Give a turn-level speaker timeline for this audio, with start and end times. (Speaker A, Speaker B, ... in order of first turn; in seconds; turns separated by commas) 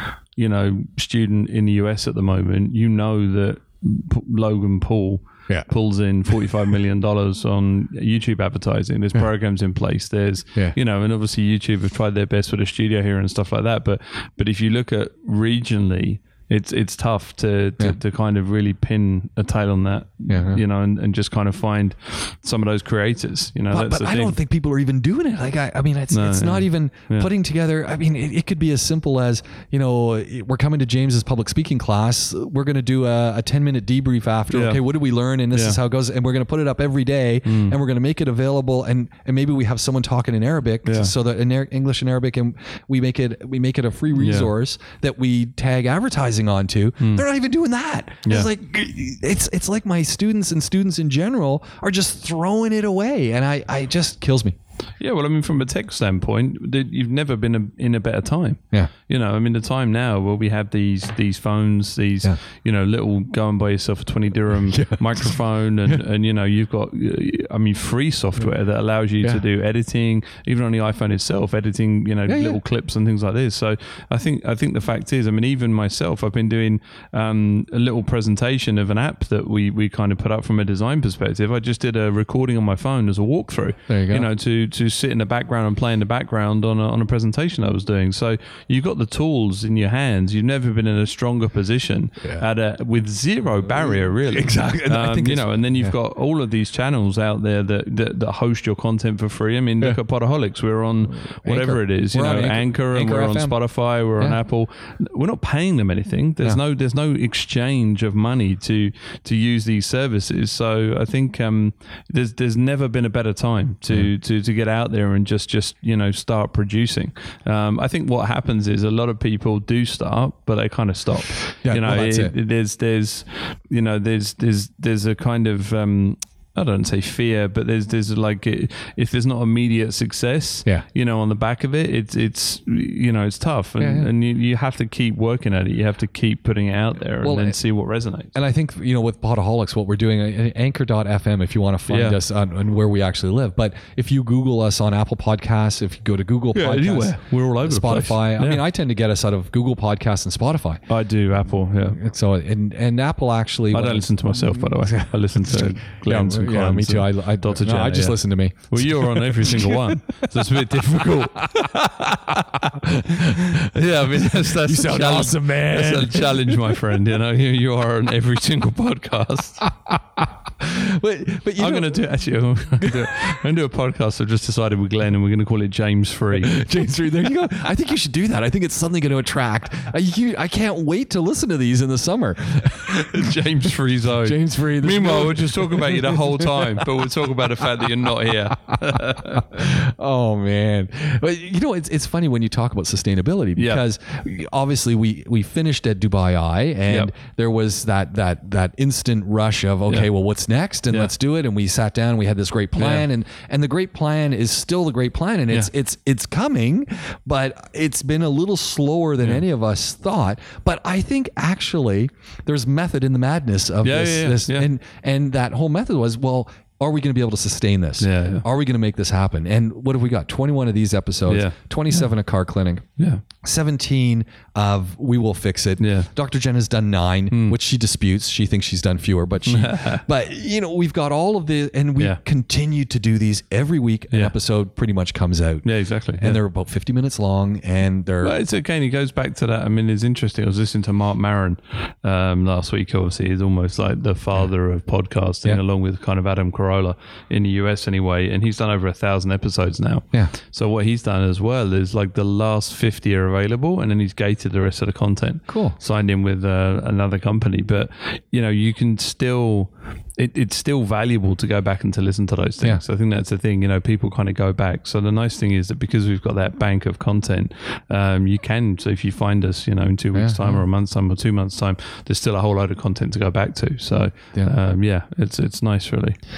Speaker A: 0.3-24.4, Speaker B: 20.3-20.6, Speaker B: 23.7-54.5, Speaker A: 26.1-27.3, Speaker A: 34.5-34.8, Speaker A: 37.5-37.8, Speaker A: 40.9-41.1, Speaker A: 44.2-44.5, Speaker A: 55.0-138.3, Speaker B: 64.7-66.0, Speaker B: 72.3-72.6, Speaker B: 83.9-84.3, Speaker B: 93.8-96.0, Speaker B: 101.4-103.6, Speaker B: 121.7-122.3, Speaker B: 133.8-134.1, Speaker B: 137.2-137.6, Speaker B: 138.3-150.8, Speaker A: 141.9-142.2, Speaker A: 146.5-148.6, Speaker A: 150.9-152.0, Speaker B: 151.9-166.8, Speaker A: 153.7-169.7, Speaker B: 169.7-172.1, Speaker A: 171.6-176.6, Speaker B: 172.8-173.4, Speaker B: 176.4-183.4, Speaker A: 182.8-189.7, Speaker B: 184.1-187.1, Speaker B: 187.6-222.8, Speaker A: 193.6-193.8, Speaker A: 202.8-203.1, Speaker A: 213.8-214.7, Speaker A: 218.0-218.4, Speaker A: 221.3-222.1, Speaker A: 223.0-223.2, Speaker B: 223.4-235.7, Speaker A: 225.8-226.1, Speaker A: 227.3-227.6, Speaker A: 229.4-230.0, Speaker A: 235.6-236.4, Speaker B: 236.2-238.4, Speaker A: 238.2-276.2, Speaker B: 255.5-255.8, Speaker B: 270.1-270.6